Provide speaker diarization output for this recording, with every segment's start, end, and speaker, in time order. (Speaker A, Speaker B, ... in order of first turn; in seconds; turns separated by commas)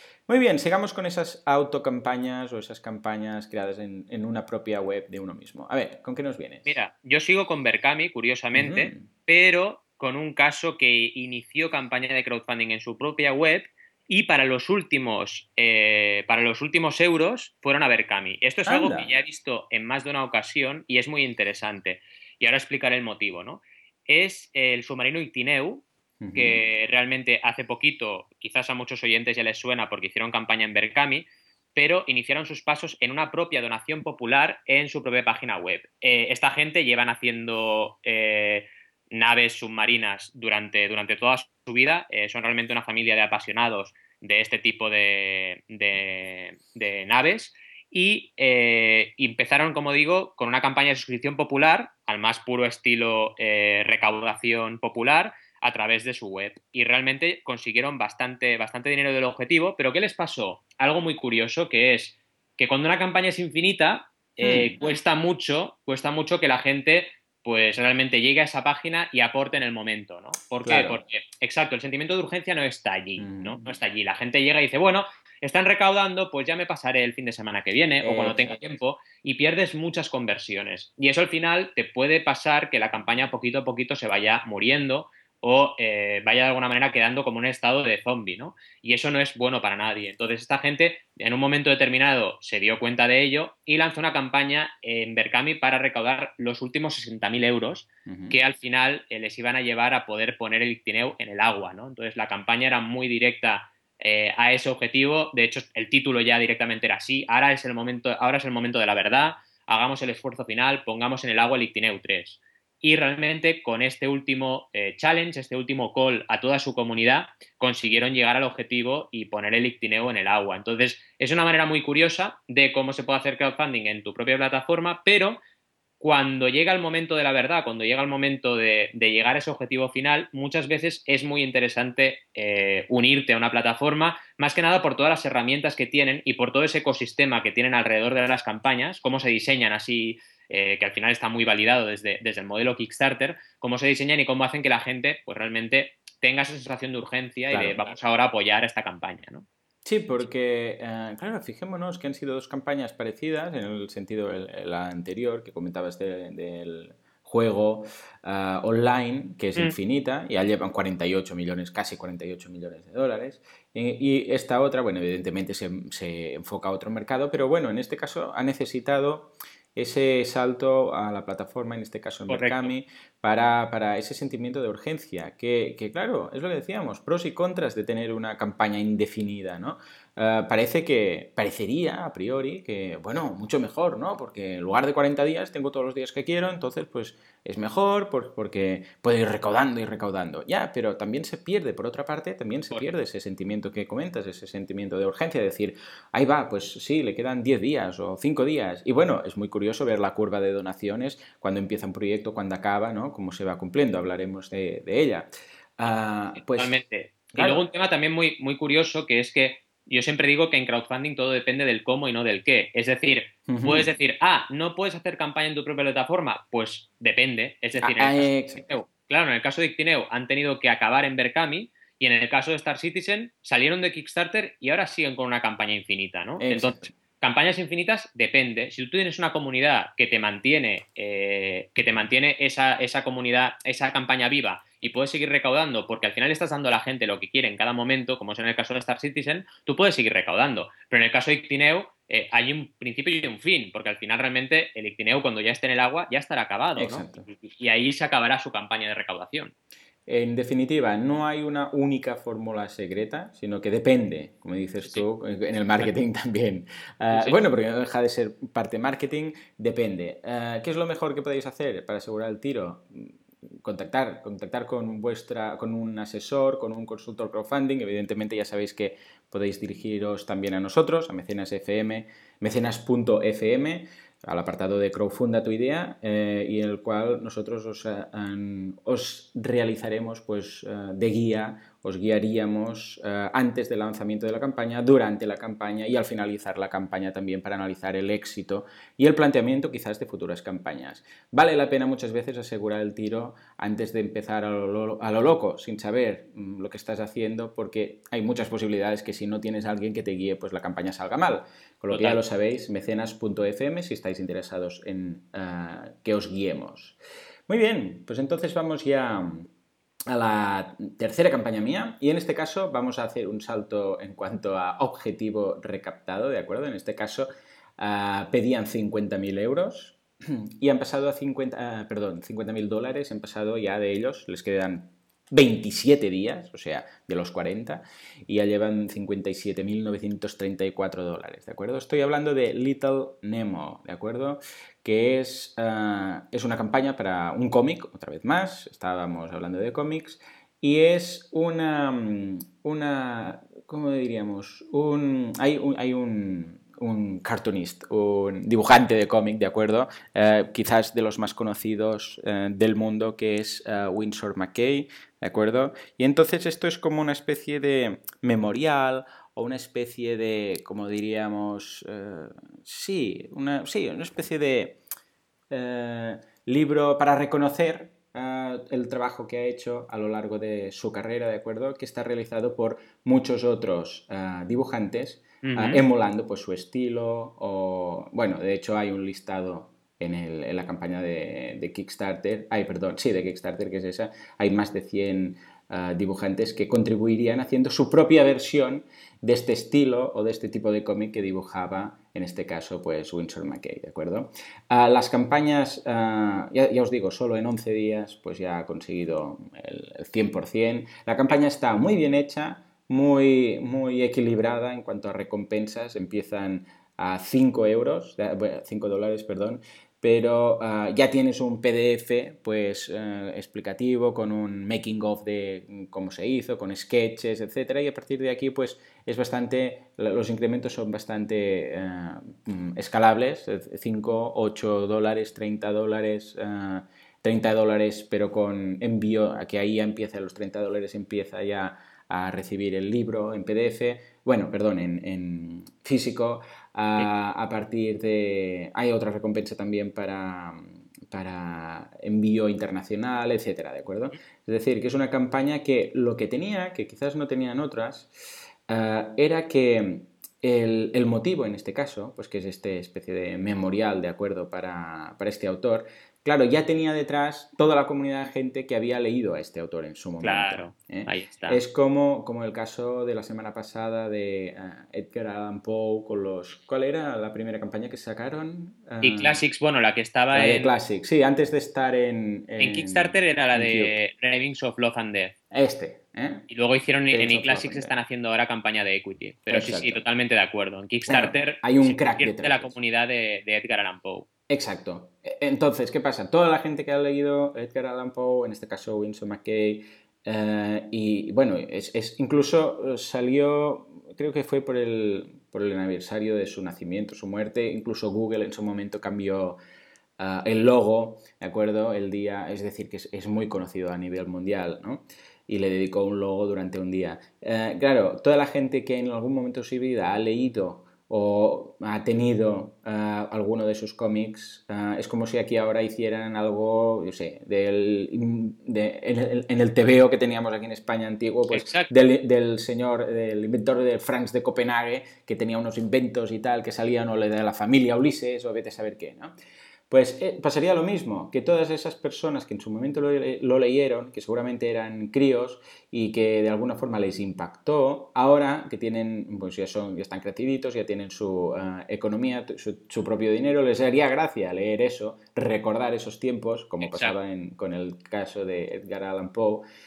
Speaker A: 0.3-6.8, Speaker B: 6.7-125.4, Speaker A: 8.6-9.1, Speaker A: 18.7-19.1, Speaker A: 26.2-26.6, Speaker A: 64.4-64.8, Speaker A: 70.6-71.0, Speaker A: 73.2-73.7, Speaker A: 78.0-78.6, Speaker A: 98.1-98.4, Speaker B: 126.0-149.5, Speaker A: 147.5-147.8, Speaker A: 149.8-205.3, Speaker B: 172.3-172.7, Speaker A: 205.8-206.8, Speaker B: 206.4-249.5, Speaker A: 207.3-207.7, Speaker A: 213.5-213.9, Speaker A: 217.8-218.7, Speaker A: 226.4-226.9, Speaker A: 246.8-247.3, Speaker A: 250.1-307.0, Speaker B: 257.1-257.4, Speaker B: 301.9-302.2, Speaker A: 307.5-309.5, Speaker A: 310.1-317.3, Speaker A: 317.8-364.8, Speaker A: 365.5-448.1, Speaker B: 375.4-375.8, Speaker A: 448.7-469.4, Speaker B: 460.2-461.6, Speaker B: 469.0-470.7, Speaker A: 470.3-473.9, Speaker B: 472.6-475.4, Speaker A: 475.5-476.5, Speaker B: 476.5-484.3, Speaker A: 477.1-477.9, Speaker A: 479.5-480.0, Speaker A: 481.1-482.7, Speaker A: 484.5-499.6, Speaker A: 500.2-529.3, Speaker B: 521.5-521.9, Speaker A: 529.9-549.6, Speaker B: 546.8-547.1